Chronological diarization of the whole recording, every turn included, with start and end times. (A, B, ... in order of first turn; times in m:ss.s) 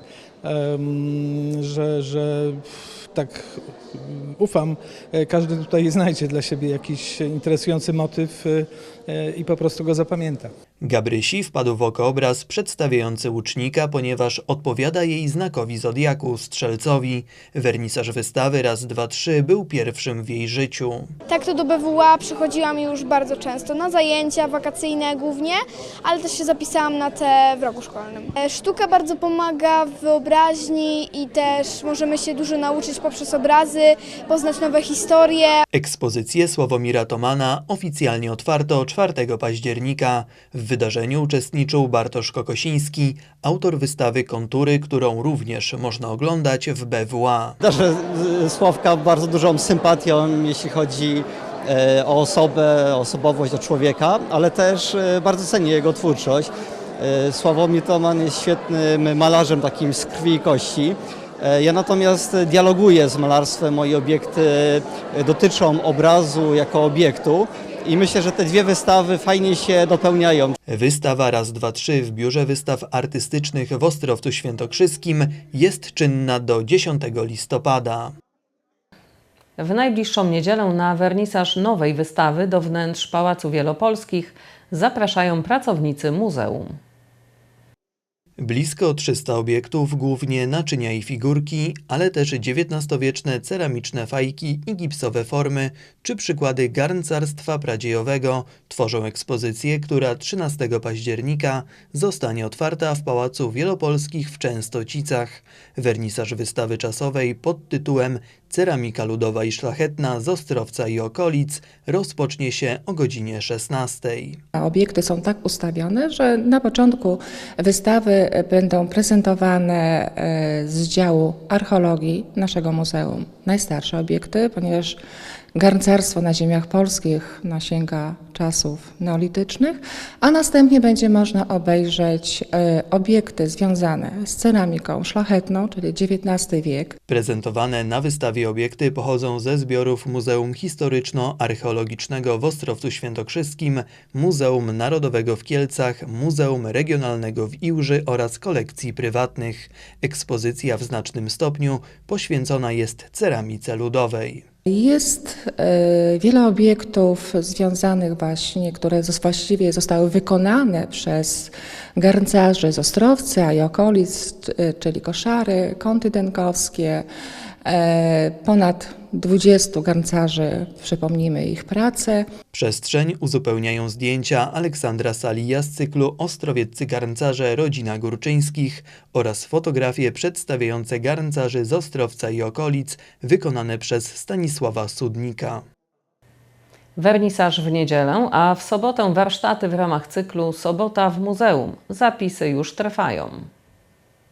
0:00.4-0:10.5 A
0:10.8-0:21.1 B
0:21.3-0:35.5 C
0:35.7-0:47.6 B
0:47.6-1:10.5 D
1:10.7-1:18.1 B
1:19.6-1:26.8 E
1:28.4-1:54.4 B
1:54.5-2:05.0 F
2:05.5-2:17.0 F
2:17.1-2:34.4 B
2:34.7-2:47.0 F
2:47.6-2:52.3 F
2:52.5-3:05.6 B
3:07.0-3:13.5 E